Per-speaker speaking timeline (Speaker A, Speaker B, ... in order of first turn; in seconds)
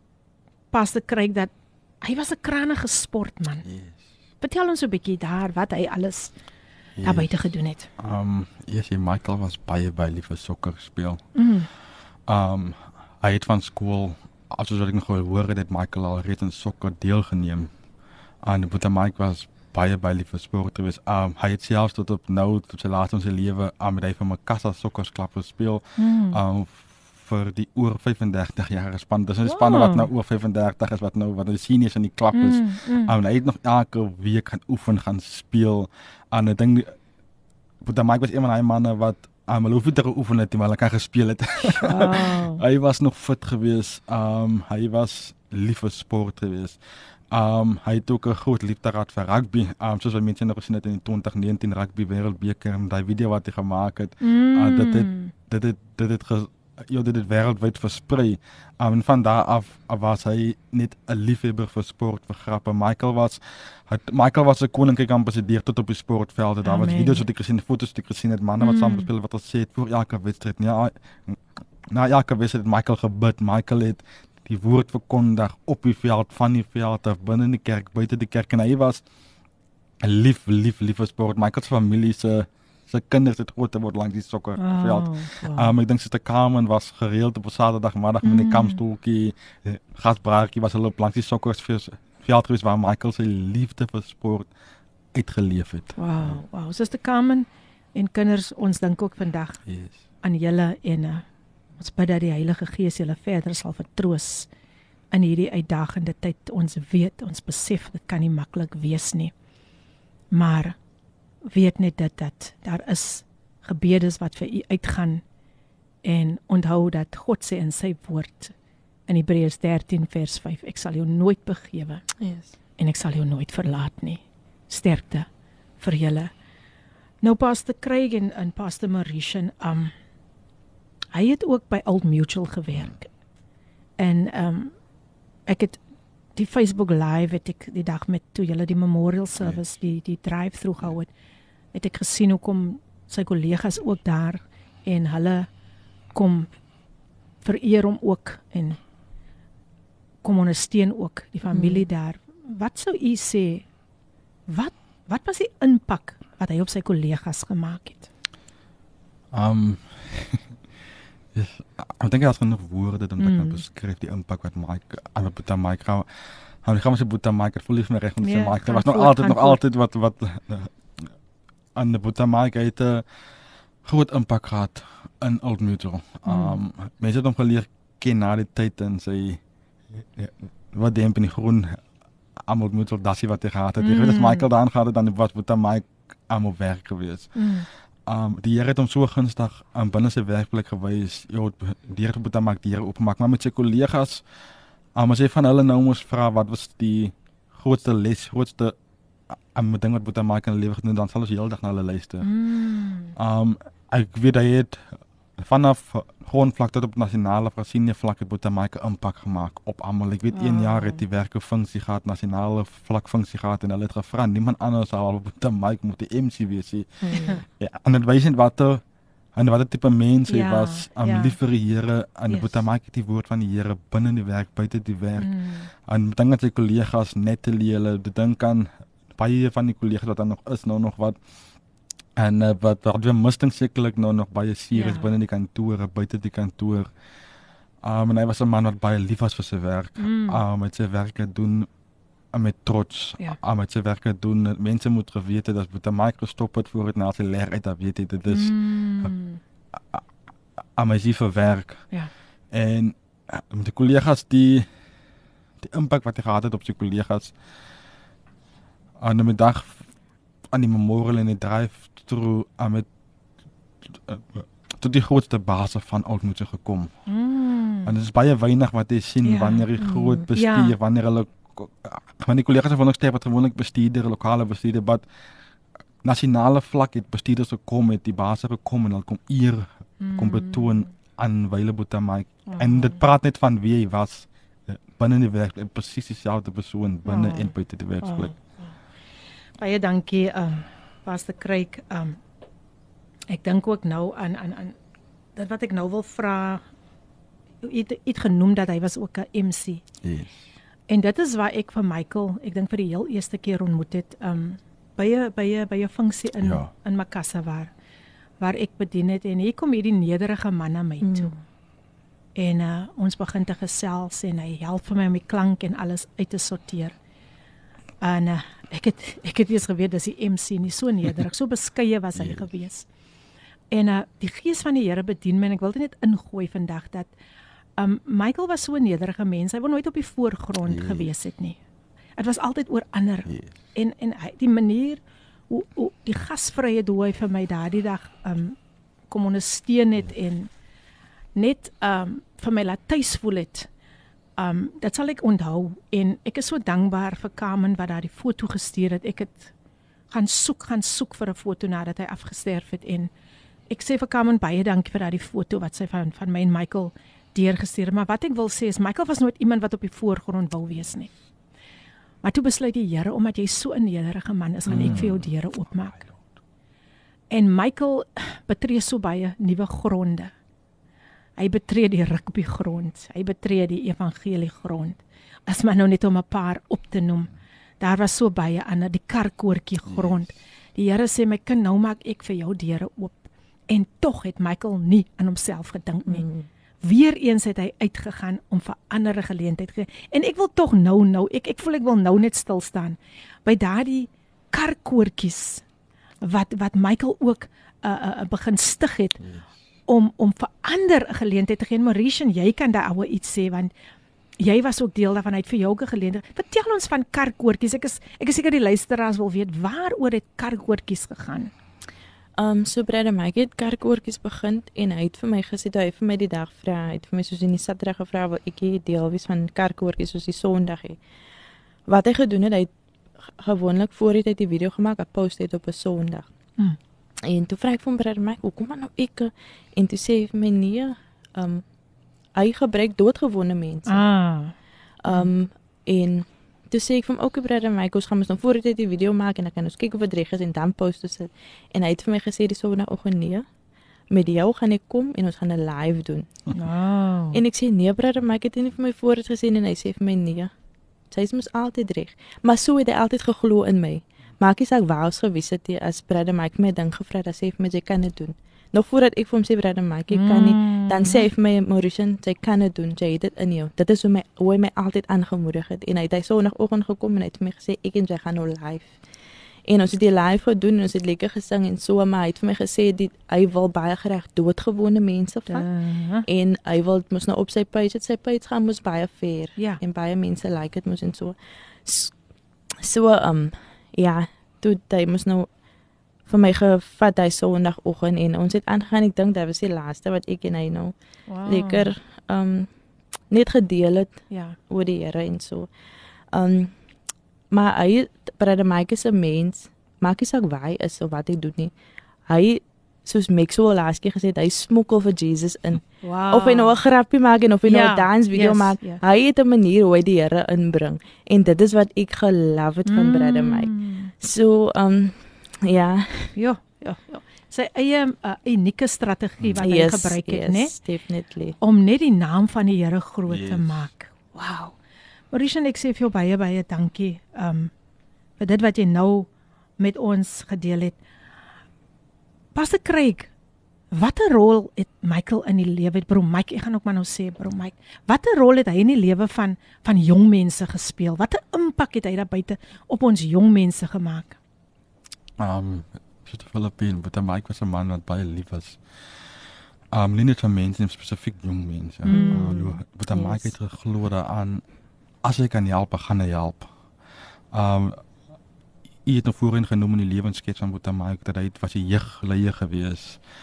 Speaker A: 0.7-3.6, 4.4-6.3, 7.0-7.9, 11.3-11.7, 26.0-26.4, 29.4-30.1, 32.3-33.1, 41.8-42.6, 54.2-55.3, 66.6-67.2, 68.6-69.1, 84.6-85.7, 88.2-88.8, 96.0-99.6, 100.2-101.2, 101.8-104.5, 105.1-109.3, 110.3-110.7, 111.5-115.2, 116.0-118.5, 119.1-122.0, 122.8-125.3, 125.8-126.3, 127.2-129.9, 131.1-133.1, 134.0-134.7, 135.5-135.8, 136.3-141.1, 141.7-145.5, 146.1-146.5, 147.4-148.8, 150.2-153.6, 154.5-158.1, 163.2-163.6, 168.2-169.6, 176.2-176.6, 183.8-184.5, 187.3-187.7, 202.2-203.1, 210.3-211.0, 220.3-221.3, 222.3-222.6, 225.2-225.7, 234.7-235.1, 240.0-240.4, 248.3-249.4, 267.1-267.9, 269.2-269.7, 270.3-270.8, 280.0-280.9, 282.5-283.0, 287.0-288.7, 289.6-292.2, 293.3-294.7, 295.4-296.6, 297.6-299.8, 300.9-307.7, 308.4-311.3, 312.3-316.9, 318.0-322.9, 323.7-327.1, 327.8-331.6, 332.2-338.6, 339.1-340.5, 341.4-343.7, 344.4-349.5, 350.1-353.1, 353.7-361.1, 362.2-366.1, 367.3-370.3, 371.4-386.2, 386.8-395.6, 396.2-399.2, 399.9-403.7, 404.4-411.5, 433.9-434.5, 446.5-447.4, 460.1-461.3, 475.5-476.2, 491.3-491.9, 494.3-494.6, 506.0-506.8, 507.6-509.0, 512.9-514.1, 516.3-520.7, 521.6-524.8, 525.3-527.7, 528.4-531.0, 532.5-533.3, 533.9-544.4, 552.0-553.5
Speaker B: 3.6-3.9, 7.0-7.3, 8.0-11.2, 12.3-17.7, 18.4-36.9, 37.8-46.8, 47.3-79.0, 80.0-94.5, 95.1-96.4, 99.7-100.0, 159.3-160.4, 161.3-166.1, 166.6-171.1, 171.7-173.0, 173.8-179.4, 179.9-181.8, 182.4-187.4, 188.1-194.2, 194.9-198.7, 199.5-202.3, 203.2-218.8, 219.3-231.2, 232.2-236.9, 237.8-241.7, 242.3-249.1, 250.8-251.8, 252.5-254.7, 255.6-257.3, 259.0-259.8, 260.5-262.9, 263.9-266.9, 267.8-275.0, 276.0-288.3, 300.0-300.3, 306.4-306.7, 322.2-322.4, 330.6-331.1, 364.7-365.3, 523.3-523.9, 545.4-548.8, 549.9-554.6, 555.2-556.7, 557.5-558.0, 559.0-563.2
Speaker C: 122.2-122.5, 151.5-151.8, 269.8-270.3, 311.0-311.3, 386.1-386.5, 412.4-421.0, 421.9-422.7, 423.2-426.3, 427.2-431.6, 432.3-434.0, 435.0-443.4, 444.1-446.5, 447.3-450.5, 451.1-468.9, 469.6-475.7, 476.2-482.1, 482.8-485.5, 486.3-490.9, 491.4-492.7, 493.3-495.7, 496.3-496.7, 497.5-501.7, 502.3-516.3, 519.6-521.6, 552.1-552.5